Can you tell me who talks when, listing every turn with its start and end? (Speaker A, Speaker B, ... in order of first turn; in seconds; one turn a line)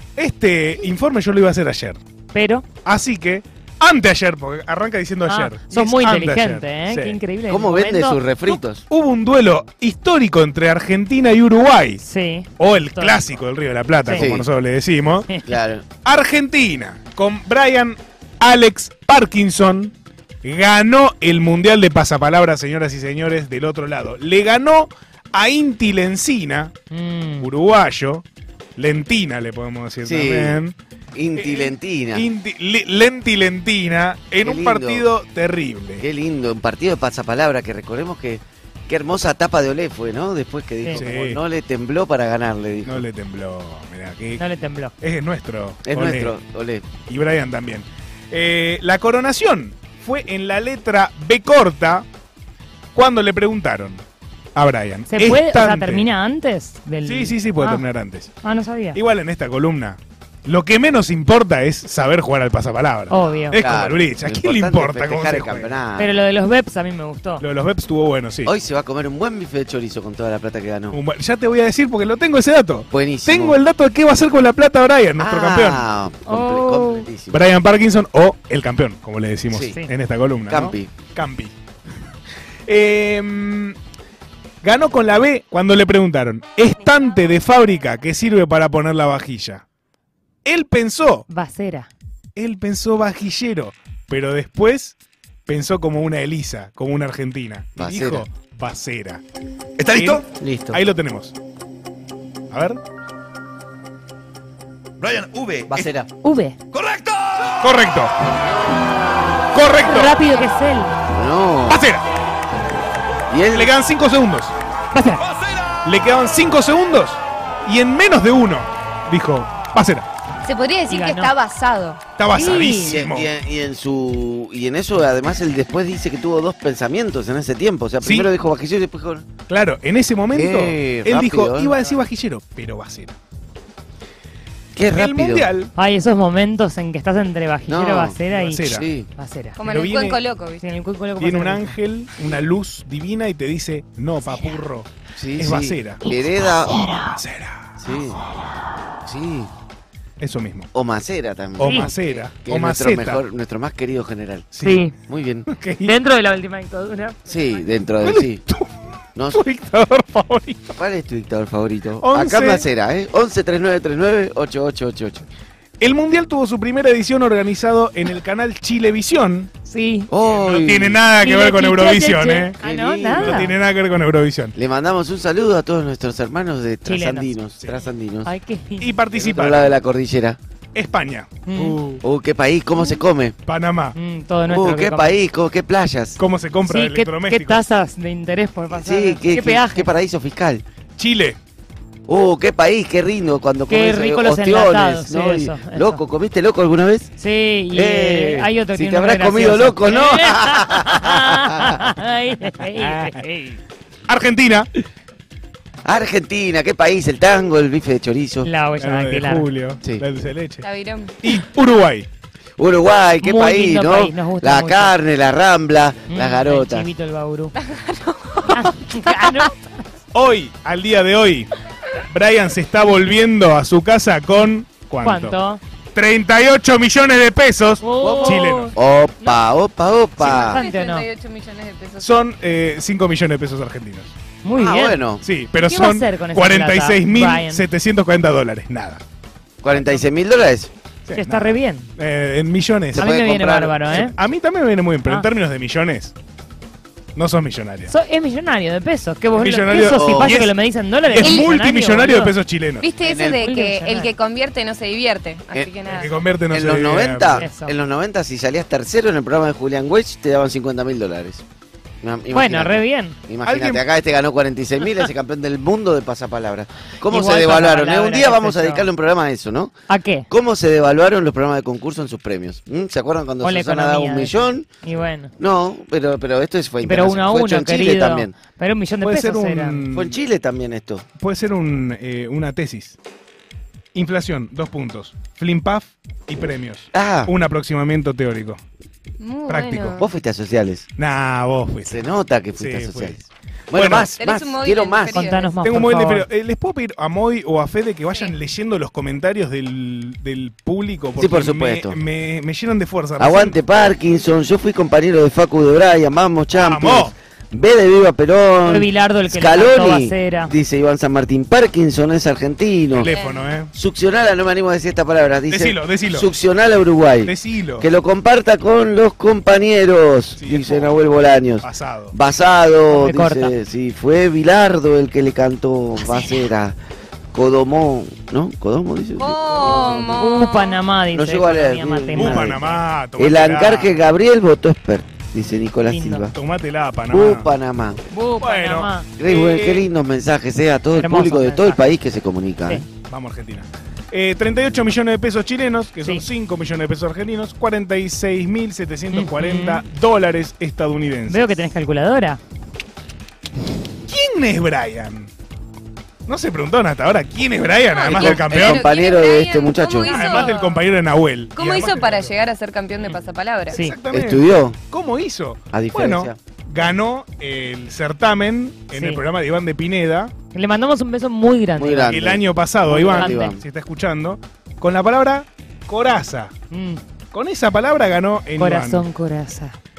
Speaker A: 0.2-2.0
Speaker B: 2.3-2.6
Speaker A: 2.8-7.2
Speaker B: 5.2-8.2
Speaker C: 7.5-8.8
Speaker A: 8.5-12.0
Speaker B: 12.0-13.2
Speaker A: 12.6-15.3
Speaker C: 14.1-14.5
Speaker C: 15.5-15.8
Speaker A: 16.0-26.7
Speaker B: 26.9-27.5
Speaker A: 27.4-28.2
Speaker A: 28.8-30.7
Speaker C: 30.0-30.6
Speaker C: 31.1-32.2
Speaker A: 31.4-36.0
Speaker C: 34.4-35.1
Speaker C: 36.0-43.0
Speaker A: 40.9-41.4
Speaker A: 42.9-44.4
Speaker B: 44.3-44.9
Speaker A: 45.0-46.3
Speaker C: 45.9-46.9
Speaker A: 47.1-52.1
Speaker A: 52.9-54.0
Speaker A: 54.5-56.1
Speaker B: 55.1-57.8
Speaker A: 57.0-58.3
Speaker B: 58.4-59.0
Speaker A: 58.9-65.8
Speaker B: 63.1-63.6
Speaker C: 63.5-66.1
Speaker B: 66.0-67.4
Speaker A: 67.4-68.5
Speaker C: 68.4-71.0
Speaker A: 70.9-75.8
Speaker C: 72.9-73.6
Speaker C: 75.2-77.4
Speaker B: 76.3-77.0
Speaker A: 77.3-81.5
Speaker C: 79.5-79.8
Speaker C: 80.5-80.9
Speaker A: 82.7-83.8
Speaker A: 84.6-89.6
Speaker A: 90.4-91.2
Speaker B: 91.3-91.9
Speaker A: 92.3-95.0
Speaker A: 95.5-99.2
Speaker C: 97.8-98.2
Speaker D: 99.8-100.2
Speaker A: 99.9-101.3
Speaker C: 100.4-100.8
Speaker A: 102.5-102.8
Speaker D: 105.0-106.1
Speaker B: 106.2-106.6
Speaker D: 106.7-107.7
Speaker A: 107.6-108.1
Speaker A: 109.5-110.1
Speaker B: 109.8-110.9
Speaker C: 111.1-111.8
Speaker A: 111.7-112.0
Speaker C: 113.3-113.7
Speaker A: 113.5-114.5
Speaker B: 114.9-115.2
Speaker D: 115.2-115.8
Speaker A: 115.8-120.1
Speaker E: 120.4-122.0
Speaker B: 120.9-121.3
Speaker A: 122.2-123.3
Speaker B: 122.3-122.9
Speaker C: 122.6-129.3
Speaker A: 128.0-128.3
Speaker A: 129.5-133.2
Speaker C: 130.3-131.8
Speaker C: 134.8-135.5
Speaker A: 134.9-135.7
Speaker B: 135.7-138.6
Speaker C: 137.7-139.1
Speaker A: 138.3-138.9
Speaker B: 139.2-139.6
Speaker E: 139.6-140.6
Speaker A: 139.6-140.2
Speaker B: 140.6-141.7
Speaker A: 141.2-146.0
Speaker C: 145.2-146.8
Speaker B: 146.0-147.2
Speaker A: 147.1-147.7
Speaker C: 147.8-148.2
Speaker C: 149.0-149.5
Speaker A: 150.2-150.7
Speaker C: 150.7-154.5
Speaker A: 151.6-153.2
Speaker B: 151.6-151.9
Speaker A: 154.5-154.8
Speaker B: 154.6-154.9
Speaker C: 155.0-155.5
Speaker A: 155.5-155.9
Speaker B: 155.8-157.6
Speaker C: 157.3-158.4
Speaker A: 158.0-160.6
Speaker C: 159.2-159.4
Speaker C: 160.7-165.2
Speaker A: 162.0-162.6
Speaker A: 165.8-169.5
Speaker B: 169.6-170.1
Speaker C: 170.1-171.0
Speaker A: 170.2-172.6
Speaker B: 171.2-173.5
Speaker C: 172.6-173.5
Speaker A: 173.1-174.5
Speaker C: 174.5-178.3
Speaker B: 176.8-177.3
Speaker B: 178.2-178.9
Speaker A: 178.8-179.8
Speaker C: 179.1-180.4
Speaker A: 180.7-182.0
Speaker B: 181.5-181.8
Speaker C: 182.0-183.3
Speaker A: 183.4-183.9
Speaker B: 183.9-185.2
Speaker C: 184.4-186.2
Speaker A: 186.2-187.6
Speaker B: 186.6-189.9
Speaker C: 188.7-190.6
Speaker A: 191.0-191.4
Speaker C: 192.1-197.1
Speaker B: 193.7-196.0
Speaker B: 197.2-203.6
Speaker C: 197.7-201.8
Speaker A: 202.8-203.2
Speaker A: 204.1-204.7
Speaker C: 205.8-208.5
Speaker B: 208.4-209.5
Speaker A: 208.8-210.6
Speaker E: 210.6-211.2
Speaker A: 211.2-212.1
Speaker C: 212.6-216.9
Speaker B: 213.2-214.9
Speaker B: 216.1-217.6
Speaker E: 217.6-219.3
Speaker B: 218.5-219.9
Speaker A: 220.1-221.5
Speaker A: 222.0-225.4
Speaker B: 225.0-225.6
Speaker A: 225.9-228.7
Speaker B: 227.8-229.3
Speaker C: 228.1-230.6
Speaker A: 230.2-230.5
Speaker B: 230.4-231.1
Speaker E: 230.5-232.2
Speaker A: 232.0-234.2
Speaker B: 234.4-235.0
Speaker C: 234.5-235.2
Speaker A: 235.2-239.0
Speaker B: 235.6-237.7
Speaker C: 239.6-240.7
Speaker A: 241.1-243.1
Speaker B: 241.1-241.9
Speaker C: 242.9-244.0
Speaker B: 243.0-244.1
Speaker A: 243.9-246.1
Speaker A: 247.2-247.9
Speaker B: 247.9-252.4
Speaker A: 249.4-250.5
Speaker C: 249.8-250.3
Speaker A: 251.1-252.9
Speaker E: 251.2-251.5
Speaker E: 252.8-256.1
Speaker C: 253.0-253.4
Speaker B: 253.4-254.1
Speaker A: 255.9-257.4
Speaker C: 256.5-261.4
Speaker B: 257.4-257.7
Speaker C: 262.0-269.7
Speaker B: 262.3-263.2
Speaker A: 263.4-263.8
Speaker B: 267.0-268.9
Speaker B: 269.9-270.3
Speaker C: 270.3-274.7
Speaker B: 273.4-275.3
Speaker C: 275.4-278.3
Speaker B: 276.8-279.8
Speaker A: 279.0-280.2
Speaker C: 279.9-281.1
Speaker A: 281.2-283.0
Speaker A: 283.9-288.6
Speaker C: 286.9-287.3
Speaker E: 289.2-290.1
Speaker A: 289.4-290.1
Speaker C: 290.0-290.9
Speaker A: 291.0-292.0
Speaker C: 291.8-295.2
Speaker A: 292.6-293.2
Speaker A: 293.7-294.1
Speaker E: 294.2-295.5
Speaker B: 295.1-296.2
Speaker A: 295.6-303.6
Speaker C: 301.2-302.0
Speaker C: 303.2-313.1
Speaker A: 306.5-307.1
Speaker B: 308.6-310.5
Speaker A: 312.9-313.7
Speaker E: 313.1-313.5
Speaker C: 313.7-326.8
Speaker A: 315.5-316.3
Speaker A: 317.2-317.9
Speaker A: 320.4-321.0
Speaker A: 321.6-322.1
Speaker B: 322.9-323.5
Speaker B: 326.1-326.4
Speaker C: 327.3-330.4
Speaker E: 329.2-330.8
Speaker B: 330.1-332.8
Speaker C: 331.1-332.6
Speaker A: 332.1-334.0
Speaker C: 333.2-336.3
Speaker B: 335.8-336.3
Speaker A: 336.3-337.5
Speaker C: 337.1-338.0
Speaker B: 338.1-339.1
Speaker A: 338.4-339.9
Speaker C: 339.2-342.9
Speaker B: 340.9-342.0
Speaker A: 343.1-351.6
Speaker B: 346.0-346.3
Speaker B: 349.1-349.8
Speaker B: 351.3-352.4
Speaker A: 354.0-355.3
Speaker A: 356.3-358.9
Speaker E: 357.9-360.8
Speaker C: 358.1-360.2
Speaker A: 360.1-362.4
Speaker B: 360.1-360.5
Speaker E: 361.5-363.8
Speaker A: 363.7-370.3
Speaker B: 363.7-363.9
Speaker C: 364.1-364.8
Speaker C: 365.7-366.4
Speaker B: 368.9-369.2
Speaker B: 370.5-372.2
Speaker C: 371.8-373.6
Speaker A: 372.1-376.5
Speaker B: 373.1-373.5
Speaker B: 376.7-377.0
Speaker A: 377.3-379.1
Speaker B: 378.6-379.8